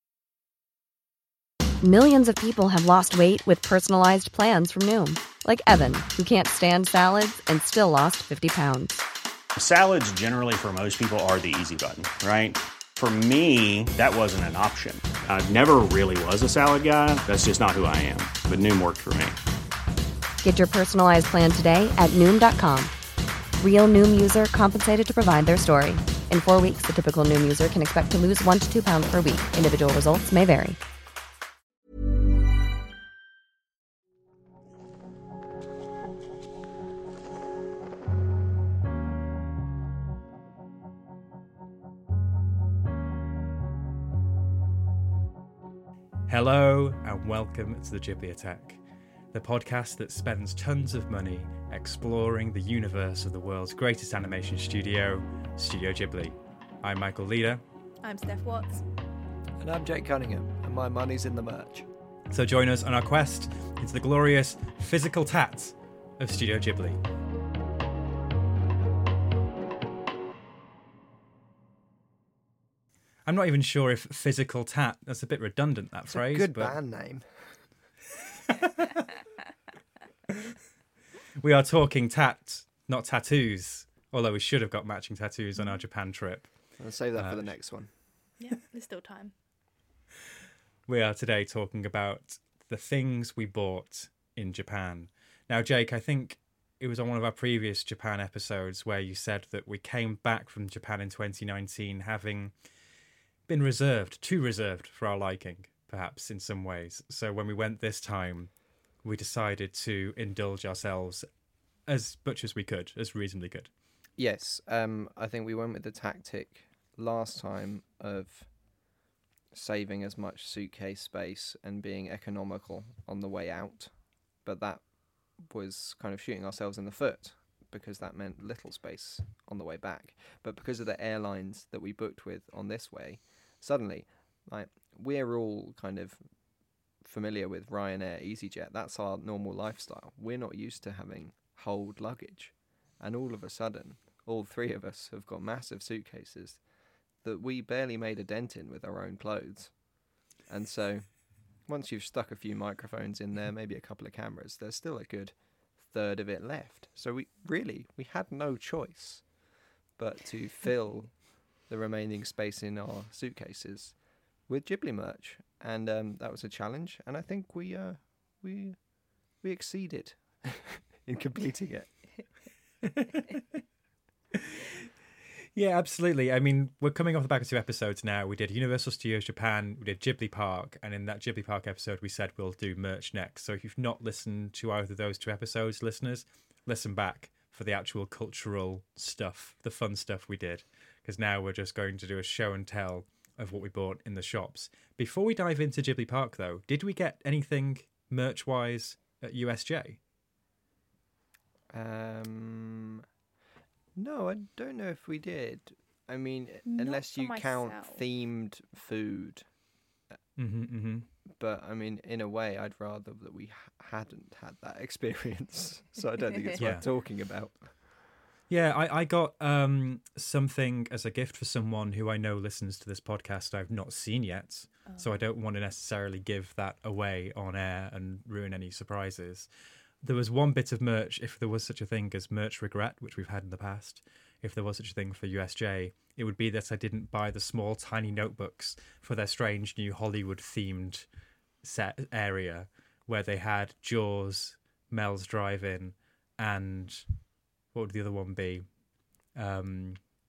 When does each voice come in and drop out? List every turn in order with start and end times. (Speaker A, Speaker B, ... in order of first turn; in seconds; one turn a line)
Speaker A: 1.8-9.0
Speaker B: 9.6-19.4
Speaker A: 20.4-22.9
Speaker A: 23.6-30.8
Speaker C: 46.3-48.8
Speaker C: 49.3-57.6
Speaker D: 58.0-58.9
Speaker E: 59.6-61.9
Speaker C: 62.3-67.0
Speaker C: 73.2-76.8
Speaker E: 76.1-77.6
Speaker C: 81.4-87.5
Speaker E: 86.8-87.9
Speaker D: 88.4-89.3
Speaker C: 90.9-102.5
Speaker C: 103.5-108.5
Speaker C: 109.0-111.2
Speaker C: 111.9-113.7
Speaker E: 114.2-118.5
Speaker E: 119.5-123.9
Speaker E: 124.4-136.2
Speaker E: 137.0-146.6
Speaker E: 147.2-149.8
Speaker E: 150.4-159.2
Speaker E: 160.0-168.8
Speaker E: 169.4-171.9
Speaker C: 172.8-173.3
Speaker C: 174.3-174.8
Speaker C: 175.5-200.0
Speaker E: 201.7-203.0
Speaker E: 203.9-209.5
Speaker D: 206.7-208.0
Speaker C: 210.4-211.1
Speaker E: 211.3-217.7
Speaker C: 216.6-216.8
Speaker C: 218.5-229.5
Speaker C: 230.0-241.1
Speaker C: 241.6-247.0
Speaker C: 247.7-248.7
Speaker C: 249.3-250.0